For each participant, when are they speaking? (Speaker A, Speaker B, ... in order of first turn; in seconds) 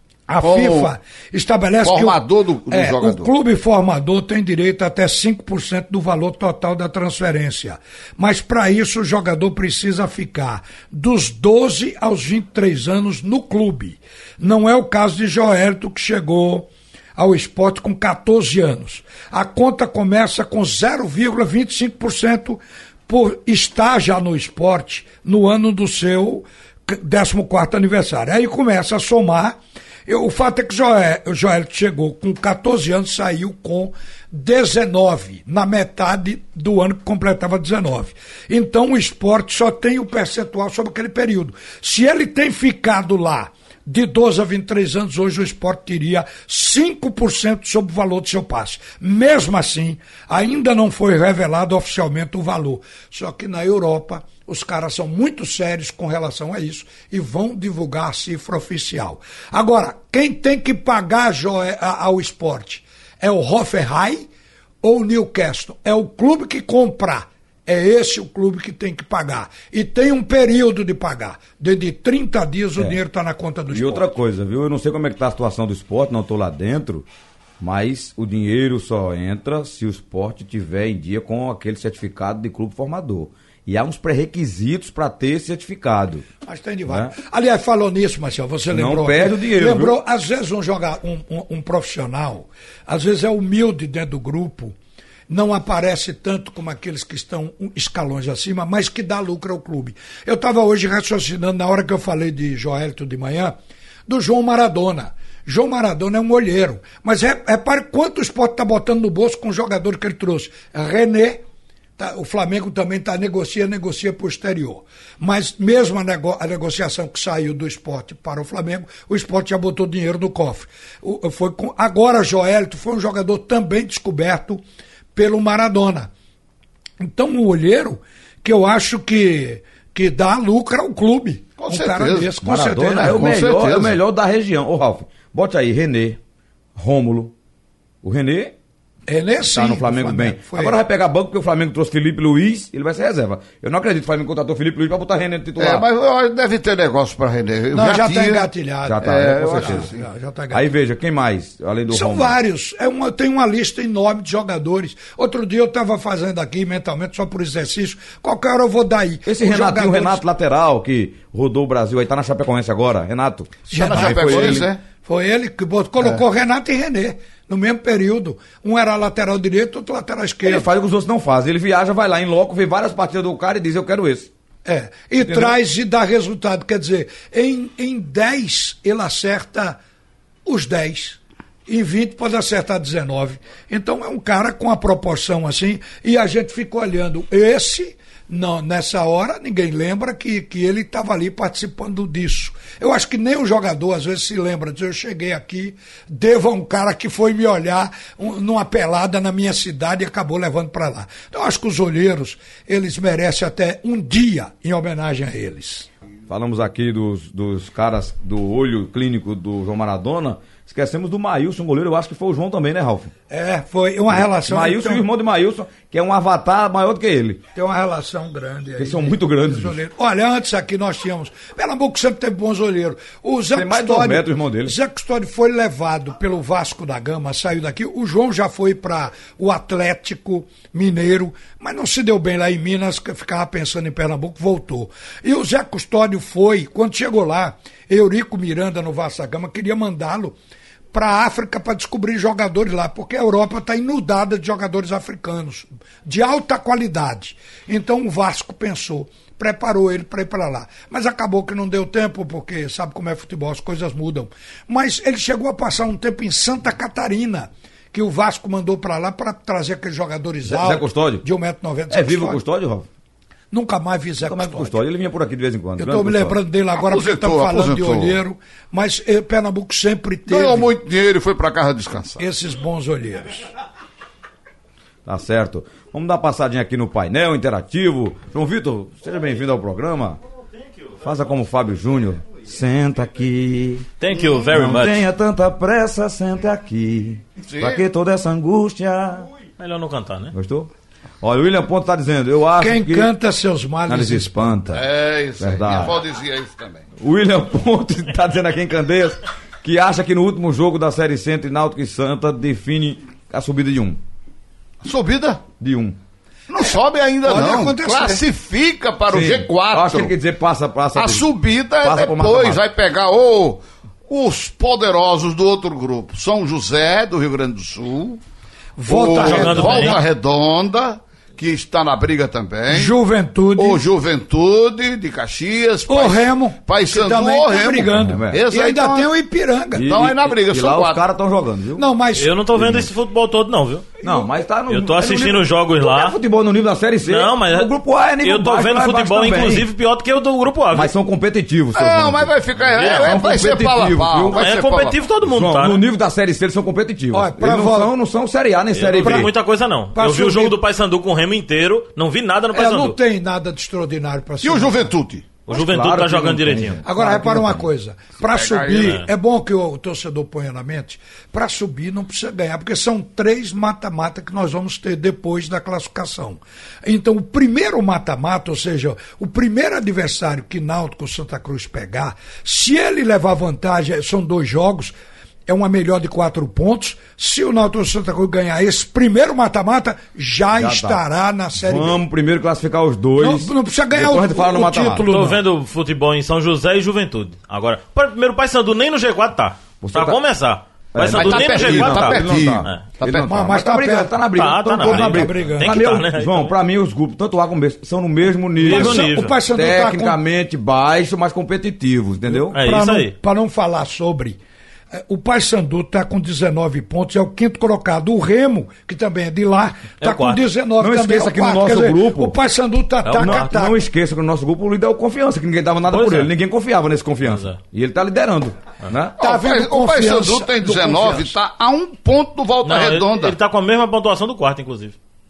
Speaker A: 0.3-2.2, 2.7-64.3, 64.8-74.1, 86.4-94.8, 95.3-103.5, 104.1-111.4, 112.0-124.6, 125.1-126.1, 127.0-133.2, 139.1-140.8, 147.7-150.7, 151.9-160.2, 163.7-170.7, 174.7-179.8, 180.4-205.9, 213.3-215.0, 217.5-240.4, 240.9-262.4, 263.5-264.8, 265.8-270.7, 272.2-273.5, 292.6-294.8, 307.2-308.2, 318.8-320.0, 322.7-323.8, 325.9-329.9, 331.7-332.4, 347.1-347.9, 349.0-349.3, 349.9-350.6, 352.5-354.9, 356.8-374.9, 375.5-382.0, 383.2-385.4, 393.2-395.8, 398.6-400.2, 402.3-404.4, 404.9-413.8, 419.2-421.4
Speaker B: 0.4-0.9, 1.8-3.3, 131.6-132.3, 132.9-134.0, 145.6-148.5, 149.0-150.0, 163.7-164.8, 266.8-268.2, 270.3-272.2, 284.1-284.4, 287.4-287.8, 294.7-296.9, 304.8-305.4, 306.5-310.1, 310.9-318.2, 318.9-322.9, 323.6-329.1, 329.9-331.0, 341.7-345.0, 354.4-355.3, 358.3-359.0, 391.0-393.5, 419.2-423.4
Speaker C: 73.7-77.0, 77.6-86.2, 86.9-87.1, 88.7-90.0, 132.4-136.2, 136.8-137.3, 138.0-138.5, 139.5-145.9, 148.8-149.9, 150.5-152.3, 159.2-164.7, 170.4-174.3, 175.2-175.6, 206.3-213.1, 214.1-217.4, 218.8-219.8, 223.5-224.7, 260.4-261.2, 261.9-262.9, 264.2-266.4, 275.1-280.2, 281.0-283.9, 284.5-289.3, 290.3-290.7, 291.2-293.1, 293.9-294.8, 295.4-296.0, 297.0-304.0, 305.6-306.0, 309.1-311.3, 311.8-312.6, 327.9-328.4, 329.7-331.8, 332.5-332.9, 334.0-339.7, 340.7-344.4, 345.2-349.3, 355.5-357.7, 380.5-381.0, 381.6-385.1, 389.8-390.2, 390.9-402.6, 410.8-412.3, 413.2-419.1
Speaker D: 284.0-285.1, 289.6-290.3, 319.1-320.0, 332.1-333.9, 334.7-336.2, 337.0-340.9, 342.7-343.2, 344.3-345.8, 348.7-353.0, 355.5-356.8, 358.8-359.1, 385.0-392.8, 394.3-396.5, 398.6-399.4, 402.5-403.1, 410.0-410.5, 413.0-413.5, 415.9-416.3, 417.2-417.6, 422.6-424.9